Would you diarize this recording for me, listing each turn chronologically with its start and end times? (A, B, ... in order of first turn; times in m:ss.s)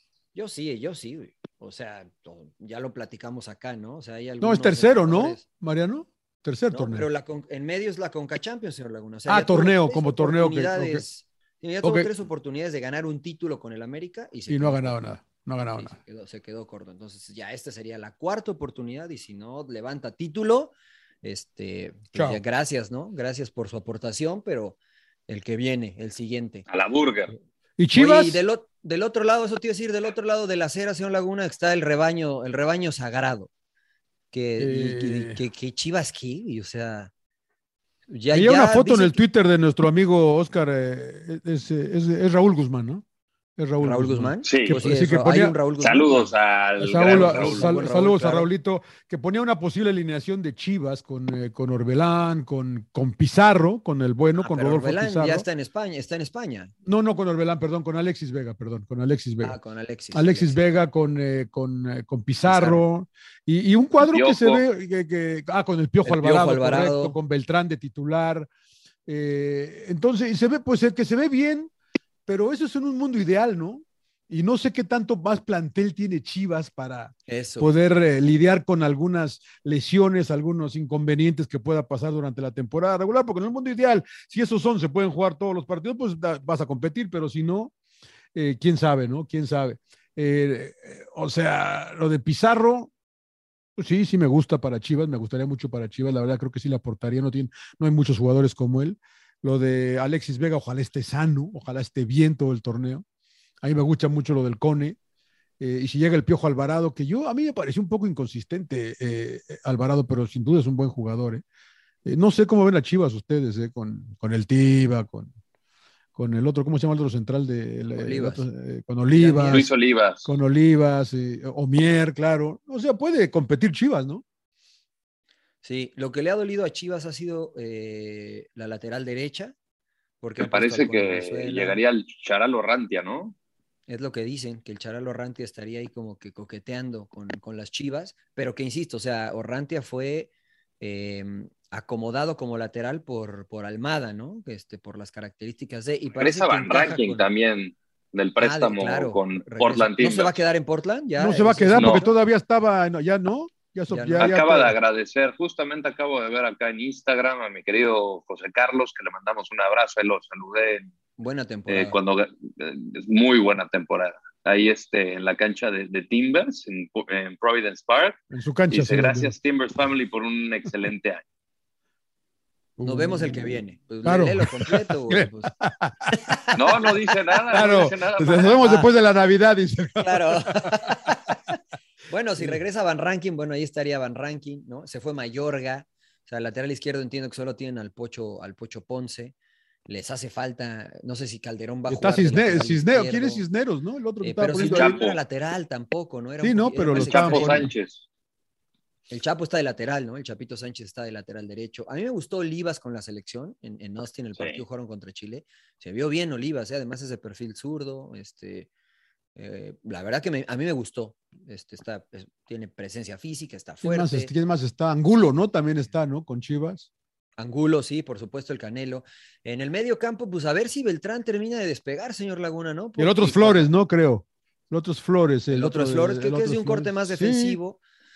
0:00.3-0:05.4 A
0:04.4-0:07.1 B
0:06.7-0:15.0 A
0:09.3-0:11.0 B
0:11.8-0:12.1 B
0:14.5-0:15.9 B
0:15.7-0:26.6 A
0:22.1-0:22.4 B
0:26.7-0:27.3 C
0:27.8-0:28.4 B
0:27.9-0:33.5 A
0:34.3-0:37.1 A
0:34.6-0:35.4 B
0:38.1-0:39.2 A
0:38.3-0:43.0 B
0:43.6-0:45.6 B
0:43.8-0:46.3 A
0:44.4-0:44.9 C
0:45.8-0:47.8 C
0:46.8-0:55.4 B
0:47.0-0:48.5 A
0:54.4-0:56.7 A
0:56.8-0:59.6 B
0:59.4-1:00.6 A
1:00.1-1:08.5 B
1:02.4-1:02.8 A
1:04.0-1:04.6 C
1:06.0-1:07.2 A
1:09.0-1:11.7 B
1:12.2-1:27.7 B
1:17.3-1:17.7 A
1:28.3-1:32.9 B
1:33.8-1:43.0 B
1:43.6-1:45.0 B
1:45.6-1:51.4 B
1:52.0-1:55.3 B
1:56.1-1:59.7 B
1:57.9-1:58.4 A
1:59.1-1:59.7 A
1:59.5-2:00.3 C
2:00.2-2:04.2 B
2:05.6-2:09.5 A
2:10.2-2:11.8 A
2:10.4-2:13.3 C
2:13.9-2:27.3 A
2:26.1-2:30.4 C
2:28.4-2:32.1 A
2:31.2-2:34.7 B
2:31.8-2:32.0 C
2:33.9-2:34.3 A
2:34.2-2:40.9 C
2:41.2-2:42.0 A
2:41.7-2:48.2 C
2:48.3-2:49.3 B
2:48.7-2:51.2 C
2:52.8-2:56.5 B
2:52.8-2:55.5 A
2:56.2-2:56.6 A
2:56.5-2:58.6 C
2:57.5-3:01.1 B
2:58.6-2:58.9 A
3:00.0-3:01.6 A
3:02.1-3:09.3 A
3:09.8-3:13.4 A
3:11.9-3:15.0 B
3:14.2-3:17.7 A
3:14.6-3:15.2 C
3:16.4-3:17.7 B
3:16.9-3:18.0 C
3:19.1-3:28.7 A
3:29.4-3:34.3 A
3:33.8-3:36.9 B
3:37.4-3:43.7 A
3:43.0-3:47.6 B
3:45.5-3:47.8 A